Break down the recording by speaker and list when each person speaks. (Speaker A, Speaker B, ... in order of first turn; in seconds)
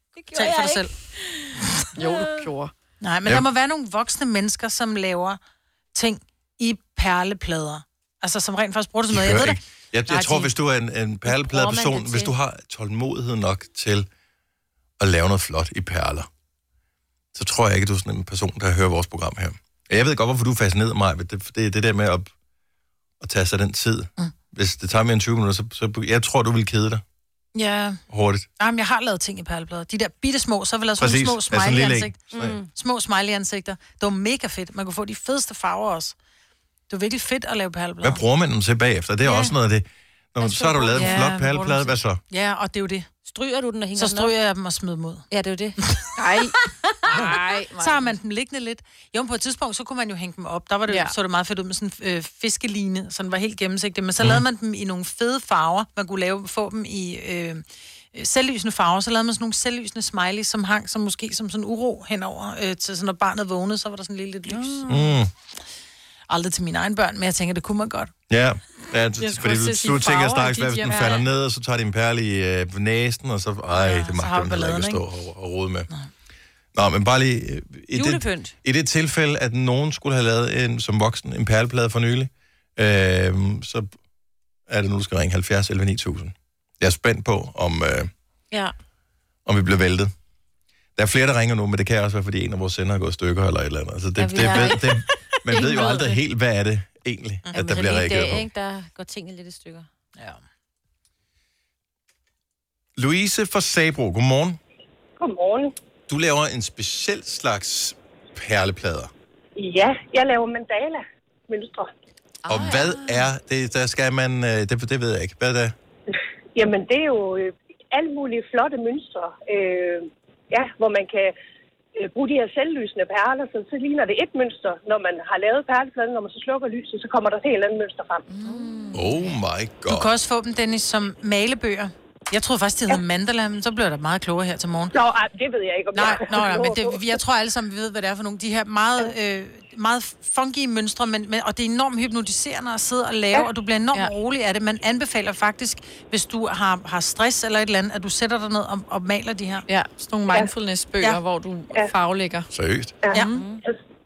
Speaker A: 0.1-2.5, 11.3-12.3, 32.3-32.7, 40.4-41.2, 43.3-44.3, 45.3-45.8, 77.9-78.5, 94.2-94.9, 95.5-96.2, 97.5-99.9, 153.3-153.6
Speaker B: 0.3-0.9, 3.0-5.4, 5.9-10.5, 27.5-28.0, 28.6-36.1, 36.9-38.2, 40.8-43.1, 44.0-45.2, 45.8-46.1, 47.8-57.6, 58.1-65.1, 66.3-68.1, 73.7-75.0, 94.4-94.7, 129.9-134.9, 135.9-149.7
Speaker C: 1.9-2.7, 46.2-48.1, 50.9-51.1, 64.5-64.9, 69.2-71.2, 112.4-113.2, 128.3-129.1, 149.7-152.5, 153.1-153.4
Speaker D: 9.1-14.1, 15.0-16.3, 17.3-22.3, 23.2-27.0, 28.1-28.5, 31.0-32.6, 38.0-42.2, 64.9-65.3, 68.3-75.9, 76.7-83.9, 84.7-88.1, 89.5-90.1, 91.0-98.5, 103.0-104.6, 106.1-109.1, 112.5-115.7, 128.9-130.1, 152.5-152.9
Speaker E: 105.2-105.7, 109.5-111.9, 116.5-121.3, 122.0-128.2, 134.9-137.0, 153.0-153.8